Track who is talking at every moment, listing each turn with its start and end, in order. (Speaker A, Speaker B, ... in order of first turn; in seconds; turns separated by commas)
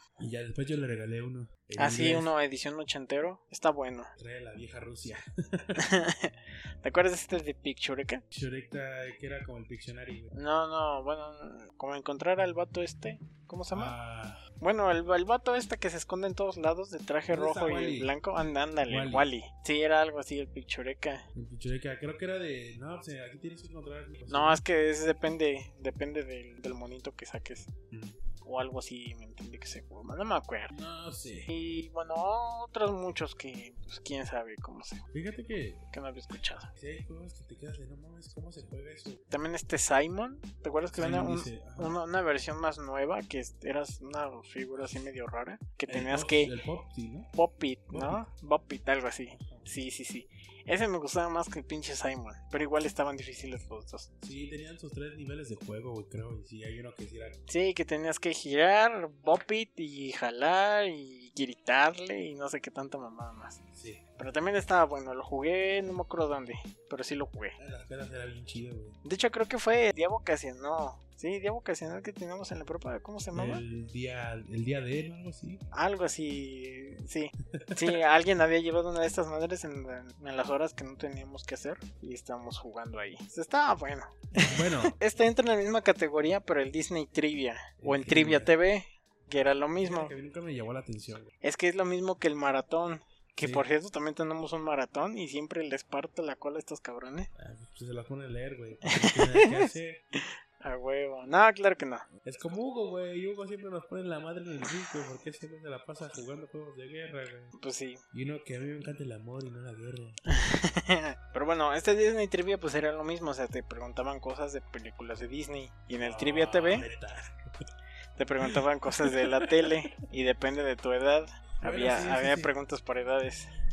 Speaker A: 0.2-2.3, Speaker B: 1.8-4.1, Speaker A: 4.2-5.8, Speaker B: 5.8-8.2, Speaker A: 8.3-10.3, Speaker B: 10.3-13.9, Speaker A: 13.7-14.4, Speaker B: 14.6-21.2, Speaker A: 17.3-18.1, Speaker A: 18.9-19.3, Speaker A: 21.3-24.6, Speaker B: 24.3-27.7, Speaker A: 27.9-28.2, Speaker B: 28.4-30.7, Speaker A: 30.7-31.5, Speaker B: 31.5-35.0, Speaker A: 35.1-35.8, Speaker B: 35.9-36.7, Speaker A: 36.7-39.2, Speaker B: 39.3-46.5, Speaker A: 41.0-42.0, Speaker A: 45.9-47.3, Speaker B: 47.3-54.1, Speaker A: 47.9-48.2, Speaker A: 49.3-49.7, Speaker A: 54.2-57.4, Speaker B: 57.5-63.6, Speaker A: 63.7-64.0, Speaker B: 64.2-67.5, Speaker A: 67.6-69.0, Speaker B: 69.0-73.6, Speaker A: 73.3-75.6, Speaker B: 75.7-90.1, Speaker A: 77.5-78.0, Speaker A: 84.3-85.0, Speaker A: 87.8-88.5, Speaker A: 89.8-91.3, Speaker B: 91.4-97.3, Speaker A: 93.4-93.7, Speaker A: 97.4-100.0, Speaker B: 98.9-102.0, Speaker A: 102.2-107.5, Speaker B: 107.5-108.0, Speaker A: 108.1-110.2, Speaker B: 110.3-116.9, Speaker A: 116.0-117.3, Speaker B: 118.2-123.5, Speaker A: 118.5-119.7, Speaker A: 121.6-122.5